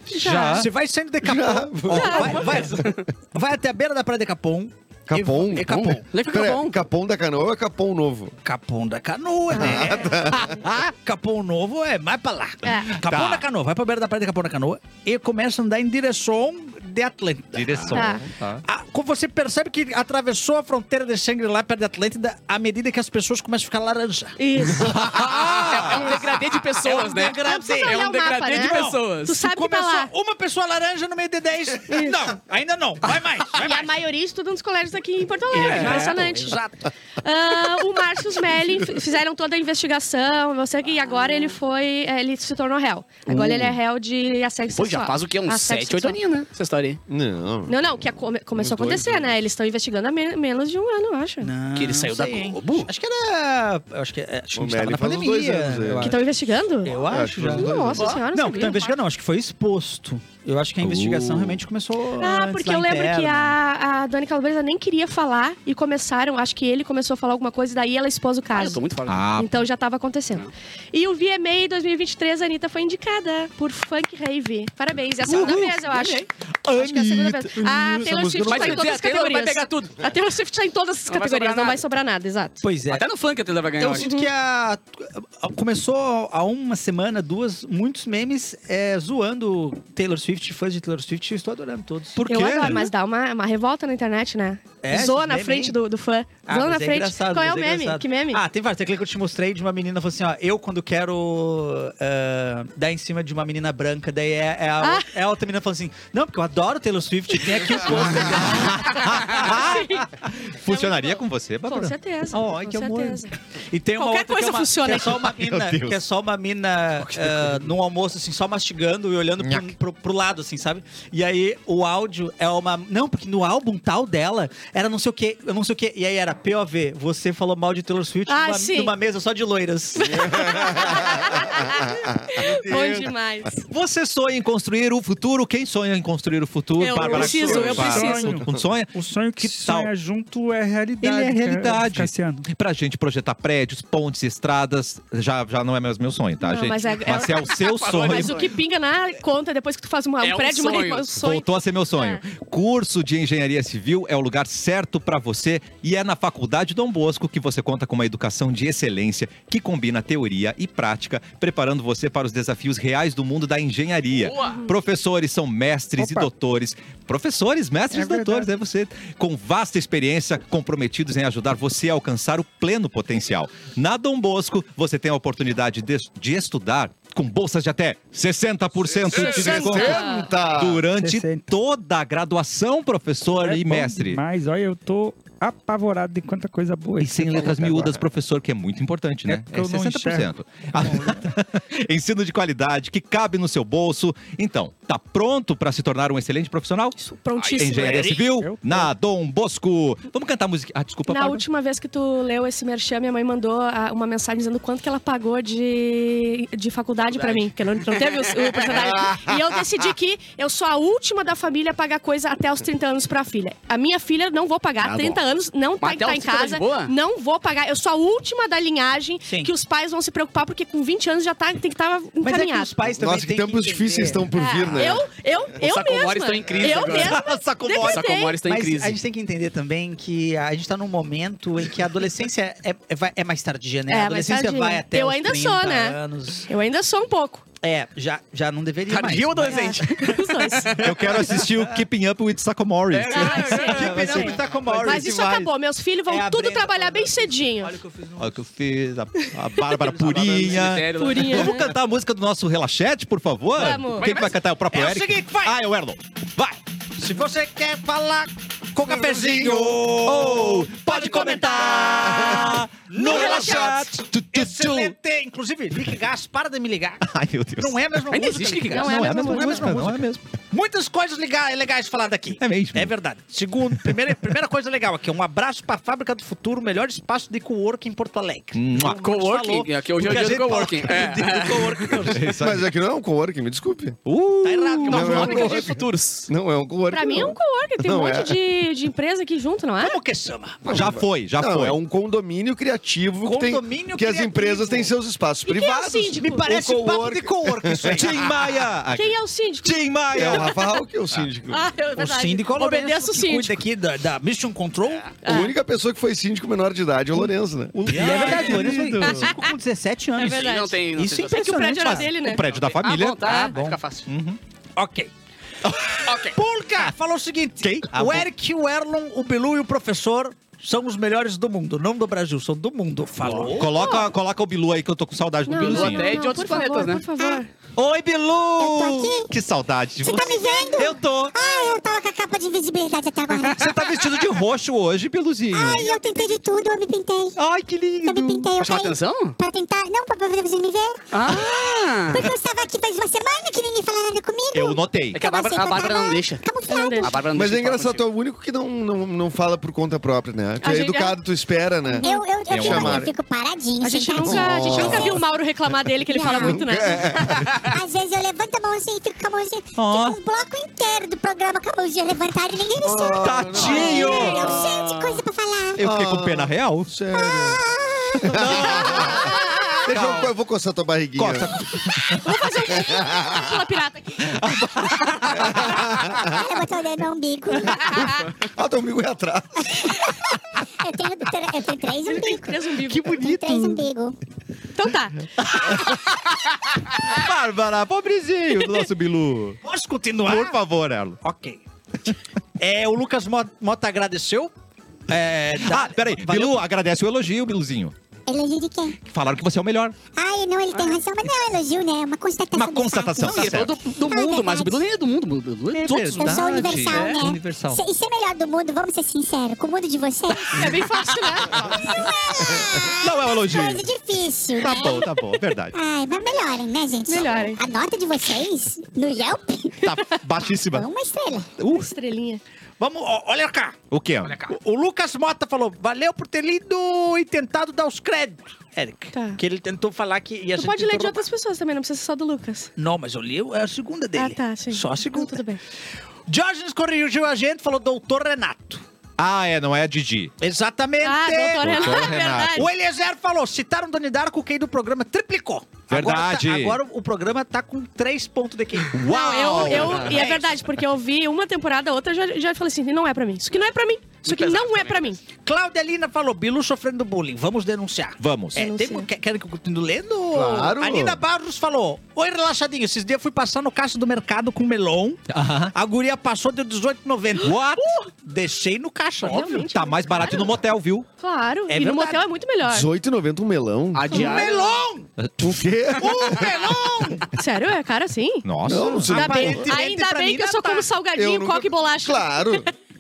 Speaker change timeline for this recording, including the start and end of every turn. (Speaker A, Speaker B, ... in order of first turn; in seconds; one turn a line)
Speaker A: 0.1-0.7
Speaker B: 0.1-0.7
Speaker C: 0.2-6.0
Speaker D: 1.2-3.0
Speaker A: 1.9-2.4
Speaker D: 5.1-8.3
Speaker E: 5.7-6.8
Speaker C: 8.4-18.1
Speaker A: 9.5-10.2
Speaker D: 9.5-10.5
Speaker A: 12.7-12.9
Speaker B: 13.0-13.4
Speaker B: 17.5-18.6
Speaker A: 17.9-18.2
Speaker C: 18.6-24.4
Speaker A: 24.4-25.0
Speaker B: 24.9-26.1
Speaker E: 25.1-29.4
Speaker C: 25.9-26.2
Speaker C: 26.8-33.9
Speaker A: 27.4-30.1
Speaker A: 31.9-32.1
Speaker A: 33.6-36.6
Speaker C: 35.5-36.8
Speaker E: 35.6-36.0
Speaker A: 37.2-46.2
Speaker E: 44.8-47.0
Speaker D: 47.1-47.9
Speaker A: 47.7-51.5
Speaker D: 48.6-49.3
Speaker C: 51.4-56.3
Speaker E: 51.8-52.9
Speaker D: 54.5-56.1
Speaker A: 56.0-57.0
Speaker C: 56.8-63.6
Speaker D: 57.0-58.2
Speaker A: 57.5-59.0
Speaker E: 58.0-58.5
Speaker B: 60.8-61.5
Speaker A: 62.2-68.8
Speaker E: 68.5-69.2
Speaker B: 69.1-69.6
Speaker A: 69.3-82.7
Speaker B: 75.3-76.0
Speaker B: 76.7-78.7
Speaker E: 78.5-80.0
Speaker E: 81.1-81.8
Speaker C: 82.6-83.1
Speaker E: 82.9-84.1
Speaker C: 83.8-92.7
Speaker A: 84.0-84.3
Speaker B: 92.2-92.9
Speaker A: 92.2-98.4
Speaker C: 94.8-95.8
Speaker C: 96.5-109.5
Speaker A: 104.8-105.1
Speaker B: 108.2-111.9
Speaker A: 109.3-110.0
Speaker A: 110.7-113.3
Speaker C: 112.3-130.6
Speaker A: 114.0-115.3
Speaker B: 115.3-116.0
Speaker B: 119.4-119.7
Speaker A: 128.3-128.9
Speaker A: 130.0-133.6
Speaker D: 130.2-133.1
Speaker B: 133.7-139.9
Speaker A: 136.8-138.4
Speaker F: 137.0-142.5
Speaker B: 141.0-148.4
Speaker A: 146.4-152.2
Speaker E: 147.1-148.5
Speaker E: 150.2-151.1
Speaker B: 151.1-184.2
Speaker E: 164.2-164.6
Speaker F: 166.0-166.3
Speaker F: 167.9-168.5
Speaker D: 178.9-180.9
Speaker A: 179.1-180.3
Speaker F: 180.9-181.5
Speaker F: 183.4-187.9
Speaker B: 187.0-197.0
Speaker F: 189.2-191.3
Speaker A: 197.0-198.1
Speaker E: 197.4-198.2
Speaker B: 197.6-201.4
Speaker F: 198.3-198.9
Speaker A: 201.1-222.7
Speaker E: 207.1-208.2
Speaker D: 208.7-209.3
Speaker B: 214.8-215.2
Speaker E: 215.8-216.9
Speaker C: 219.2-219.5
Speaker C: 222.2-224.3
Speaker D: 223.0-225.1
Speaker A: 224.3-228.4
Speaker E: 225.6-227.2
Speaker B: 226.9-228.1
Speaker E: 227.8-229.0
Speaker C: 228.4-236.5
Speaker A: 233.9-236.0
Speaker A: 236.5-237.4
Speaker C: 237.6-240.2
Speaker E: 238.9-240.8
Speaker A: 239.5-240.8
Speaker B: 240.8-244.2
Speaker C: 240.8-241.8
Speaker E: 242.9-244.3
Speaker A: 243.1-247.7
Speaker C: 243.3-245.5
Speaker B: 244.7-245.2
Speaker C: 246.1-248.4
Speaker B: 248.2-256.6
Speaker E: 249.9-251.6
Speaker C: 250.1-250.6
Speaker A: 251.0-251.7
Speaker A: 253.6-254.1
Speaker E: 254.0-254.3
Speaker C: 254.7-255.6
Speaker C: 257.0-282.5
Speaker D: 258.8-259.7
Speaker B: 259.8-264.9
Speaker D: 262.1-262.5
Speaker D: 263.2-263.6
Speaker B: 267.1-267.8
Speaker E: 268.1-269.1
Speaker A: 268.7-269.7
Speaker B: 268.8-270.2
Speaker B: 272.4-272.9
Speaker B: 278.6-279.0
Speaker E: 278.8-282.0
Speaker B: 282.1-282.7
Speaker D: 282.4-284.0
Speaker B: 284.1-285.2
Speaker C: 284.4-285.6
Speaker E: 284.8-286.3
Speaker D: 284.9-285.8
Speaker D: 286.3-288.4
Speaker A: 286.9-290.0
Speaker C: 289.8-290.7
Speaker D: 290.7-298.1
Speaker B: 290.7-291.8
Speaker C: 293.2-294.9
Speaker A: 295.4-296.4
Speaker C: 296.2-298.4
Speaker B: 297.9-300.7
Speaker A: 298.9-300.5
Speaker D: 300.1-301.7
Speaker A: 301.5-303.6
Speaker C: 302.0-305.1
Speaker A: 305.2-305.6
Speaker D: 305.2-307.8
Speaker C: 307.8-312.1
Speaker B: 307.9-309.3
Speaker A: 309.1-309.5
Speaker A: 310.2-312.4
Speaker E: 310.2-312.0
Speaker B: 312.1-313.5
Speaker E: 312.5-314.1
Speaker C: 313.3-313.8
Speaker B: 314.1-314.4
Speaker C: 314.8-315.1
Speaker B: 315.6-316.1
Speaker E: 316.1-316.4
Speaker C: 316.2-323.8
Speaker B: 317.6-318.2
Speaker B: 323.4-326.1
Speaker A: 323.7-324.1
Speaker A: 325.5-327.5
Speaker E: 325.6-327.1
Speaker B: 327.8-331.4
Speaker G: 328.6-329.3
Speaker G: 330.0-333.7
Speaker B: 333.4-335.9
Speaker G: 335.5-337.4
Speaker B: 337.4-338.5
Speaker G: 338.0-347.1
Speaker E: 338.6-339.4
Speaker E: 341.1-342.3
Speaker B: 344.5-345.2
Speaker E: 345.1-346.4
Speaker A: 346.7-347.1
Speaker E: 347.0-348.1
Speaker D: 347.3-353.1
Speaker A: 350.6-351.2
Speaker A: 351.9-352.2
Speaker G: 352.0-355.2
Speaker B: 352.5-353.1
Speaker A: 353.8-357.4
Speaker D: 354.2-355.2
Speaker G: 356.1-356.6
Speaker D: 356.3-357.6
Speaker G: 357.6-365.8
Speaker B: 359.8-360.2
Speaker D: 362.8-364.6
Speaker B: 363.2-364.6
Speaker A: 363.6-364.4
Speaker B: 365.8-366.9
Speaker D: 365.8-367.6
Speaker G: 367.2-368.2
Speaker D: 368.2-371.6
Speaker B: 368.3-369.4
Speaker A: 369.1-369.9
Speaker B: 369.9-370.3
Speaker B: 371.2-372.2
Speaker A: 372.2-374.4
Speaker D: 372.7-373.6
Speaker B: 374.2-375.8
Speaker D: 375.4-376.3
Speaker G: 376.3-377.9
Speaker D: 377.8-380.0
Speaker A: 377.8-378.2
Speaker G: 380.8-384.2
Speaker A: 382.0-383.3
Speaker C: 382.9-383.8
Speaker A: 384.8-385.9
Speaker B: 385.4-386.1
Speaker B: 387.0-389.6
Speaker C: 389.6-390.6
Speaker B: 390.2-391.2
Speaker C: 391.2-391.6
Speaker C: 392.6-394.5
Speaker C: 395.1-396.6
Speaker B: 395.6-397.9
Speaker G: 398.3-399.0
Speaker B: 399.0-400.0
Speaker G: 400.1-404.8
Speaker B: 402.5-403.8
Speaker E: 403.2-406.5
Speaker C: 405.8-407.5
Speaker B: 405.8-407.8
Speaker G: 406.2-410.7
Speaker A: 410.5-412.1
Speaker G: 411.9-415.1
Speaker B: 413.0-413.9
Speaker B: 414.6-415.8
Speaker G: 415.7-419.8
Speaker A: 417.1-417.6
Speaker B: 419.8-420.9
Speaker G: 420.7-421.5
Speaker B: 421.6-421.9
Speaker A: 421.6-422.4
Speaker C: 422.8-423.8
Speaker B: 423.9-424.4
Speaker C: 424.4-431.3
Speaker A: 429.1-429.4
Speaker A: 430.6-432.7
Speaker C: 432.8-435.4
Speaker A: 434.2-435.6
Speaker C: 436.3-438.8
Speaker B: 439.2-440.3
Speaker C: 440.4-450.4
Speaker A: 441.0-442.7
Speaker B: 441.6-442.7
Speaker B: 445.9-446.8
Speaker B: 448.9-450.2
Speaker A: 449.1-455.2
Speaker E: 454.2-455.1
Speaker C: 455.4-469.7
Speaker B: 458.2-458.6
Speaker A: 458.6-459.1
Speaker D: 460.3-461.2
Speaker B: 465.3-465.7
Speaker B: 467.4-467.9
Speaker A: 469.2-470.5
Speaker B: 469.6-471.1
Speaker A: 471.2-472.9
Speaker C: 471.7-472.2
Speaker D: 472.7-474.1
Speaker E: 473.9-474.7
Speaker C: 474.1-475.1
Speaker A: 474.1-474.4
Speaker D: 475.4-476.6
Speaker C: 476.0-477.3
Speaker A: 477.4-478.5
Speaker B: 478.4-479.1
Speaker D: 478.7-479.7
Speaker C: 478.9-480.9
Speaker A: 479.1-482.6
Speaker D: 481.1-482.7